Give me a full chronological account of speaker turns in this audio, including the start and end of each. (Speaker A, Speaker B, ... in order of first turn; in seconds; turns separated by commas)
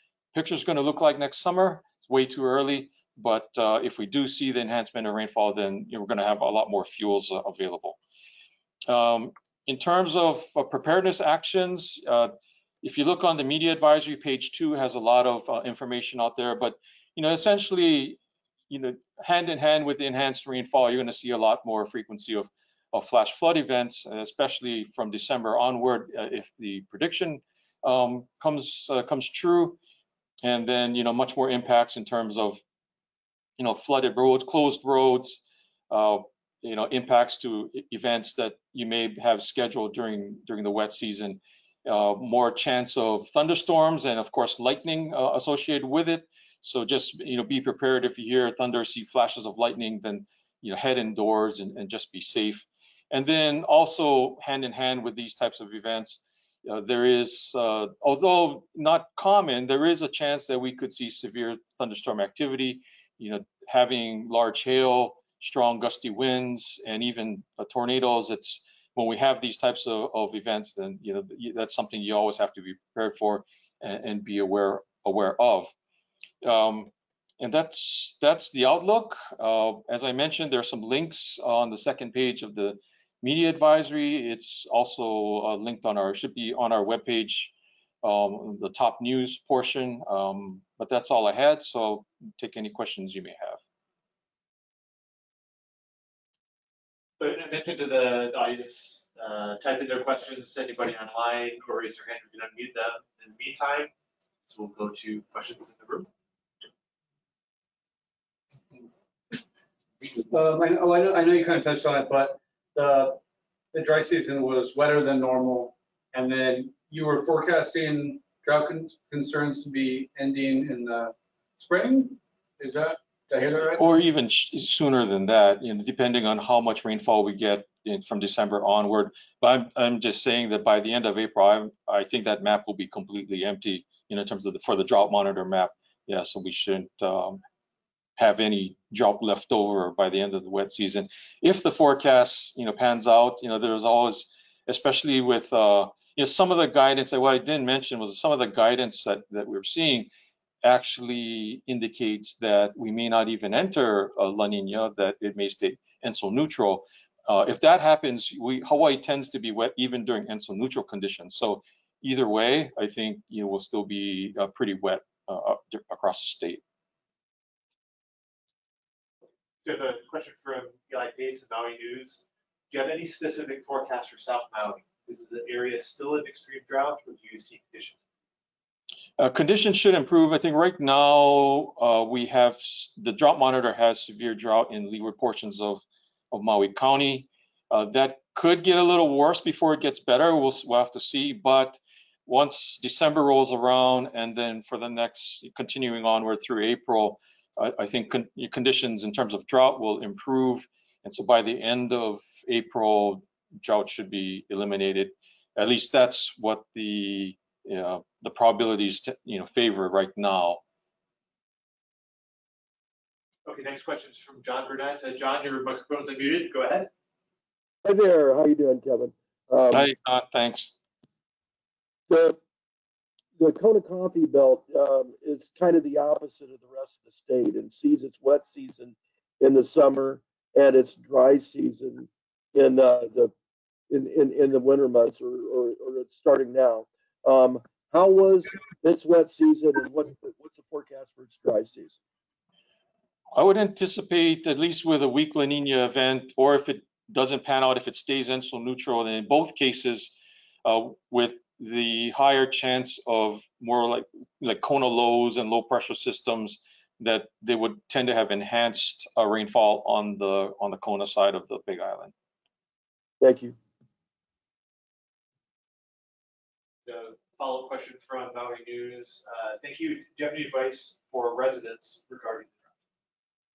Speaker A: 0.3-8.0, Speaker A: 8.9-29.8, Speaker A: 30.4-32.6, Speaker A: 33.6-75.7, Speaker A: 76.4-93.6, Speaker B: 97.2-103.9, Speaker B: 104.5-106.1, Speaker C: 110.1-113.2, Speaker C: 113.7-123.8, Speaker A: 123.7-137.4, Speaker A: 138.2-150.1, Speaker A: 150.6-166.6, Speaker B: 169.6-178.0, Speaker A: 179.2-210.6, Speaker B: 213.5-216.9, Speaker D: 217.8-219.9, Speaker A: 219.7-220.8, Speaker D: 222.1-222.4, Speaker D: 223.4-233.3, Speaker D: 233.9-242.0, Speaker A: 243.3-250.1, Speaker A: 250.7-262.1, Speaker D: 263.2-263.6, Speaker B: 266.9-272.7